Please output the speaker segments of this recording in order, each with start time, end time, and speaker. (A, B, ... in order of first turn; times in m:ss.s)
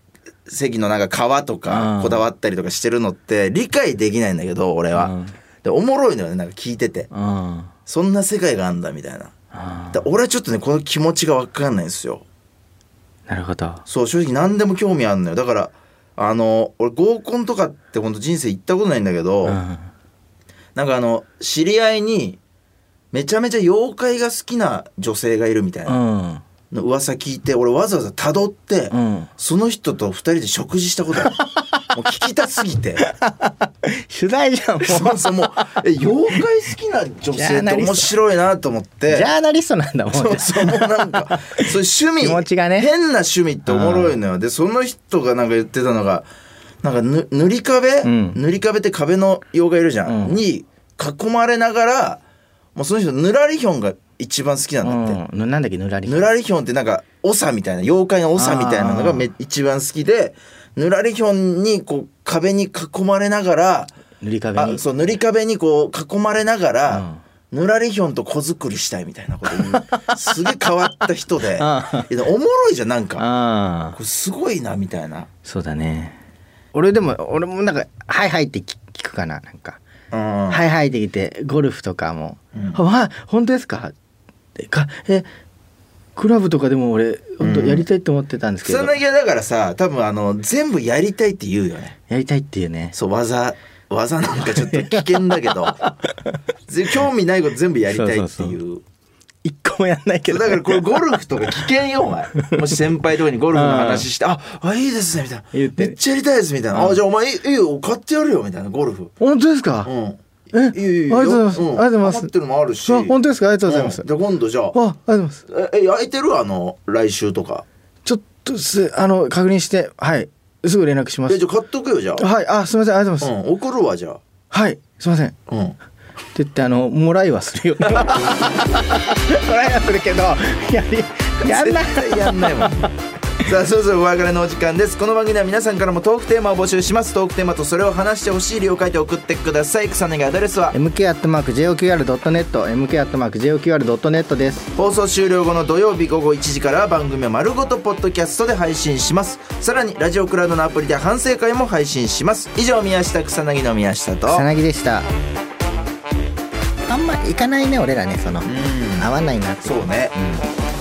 0:00.5-0:07.1 A
0:01.7-0:02.2 B
0:05.0-0:05.4 B
0:07.1-0:07.7 B
0:07.9-0:09.3 A
0:09.5-0:10.0 B
0:09.9-0:12.2 A
0:13.3-0:13.8 B
0:13.9-0:19.6 A
0:19.4-0:19.9 B
0:20.8-0:22.4 A
0:23.1-0:26.0 A
0:25.9-0:26.4 B
0:26.7-0:31.4 A
0:28.9-0:29.3 B
0:31.2-0:31.6 B
0:31.9-0:33.0 A
0:33.1-0:35.4 B
0:34.8-0:39.3 A
0:37.3-0:38.1 B
0:39.1-0:41.6 B
0:40.1-0:46.3 A
0:42.2-0:42.9 B
0:43.7-0:44.2 B
0:46.8-0:52.2 A
0:48.0-0:48.4 B
0:50.1-0:50.4 B
0:52.8-0:55.2 A
0:54.8-0:56.3 B
0:56.1-1:03.9 A
0:58.4-0:59.3 B
1:04.2-1:04.8 B
1:04.6-1:13.2 A
1:06.9-1:07.2 B
1:09.5-1:10.2 B
1:11.6-1:12.1 B
1:13.2-1:14.0 B
1:13.9-1:15.3 A
1:15.4-1:16.2 B
1:16.7-1:19.8 B
1:20.1-1:20.6 A
1:20.5-1:23.9 B
1:22.5-1:22.8 A
1:24.6-1:25.3 B
1:26.2-1:28.9 B
1:27.4-1:27.8 A
1:28.6-1:32.0 A
1:32.1-1:33.0 B
1:32.9-1:35.8 A
1:34.5-1:35.1 B
1:35.8-1:36.4 B
1:36.7-1:38.8 A
1:37.9-1:38.6 B
1:39.4-1:41.2 B
1:40.3-1:49.1 A
1:42.4-1:42.7 B
1:43.5-1:44.1 B
1:45.5-1:46.0 B
1:46.7-1:47.0 B
1:49.2-1:49.9 B
1:49.8-1:54.8 A
1:50.5-1:52.3 B
1:52.9-1:54.1 B
1:54.7-1:55.4 B
1:55.5-1:57.6 A
1:58.0-2:01.4 B
2:01.3-2:02.3 A
2:02.2-2:03.3 B
2:03.2-2:04.2 A
2:04.5-2:05.4 B
2:05.5-2:05.8 A
2:06.4-2:12.9 B
2:11.4-2:20.8 A
2:20.7-2:24.7 B
2:24.8-2:34.5 A
2:34.3-2:35.1 B
2:36.8-2:40.5 B
2:38.4-2:39.1 A
2:39.6-2:40.1 A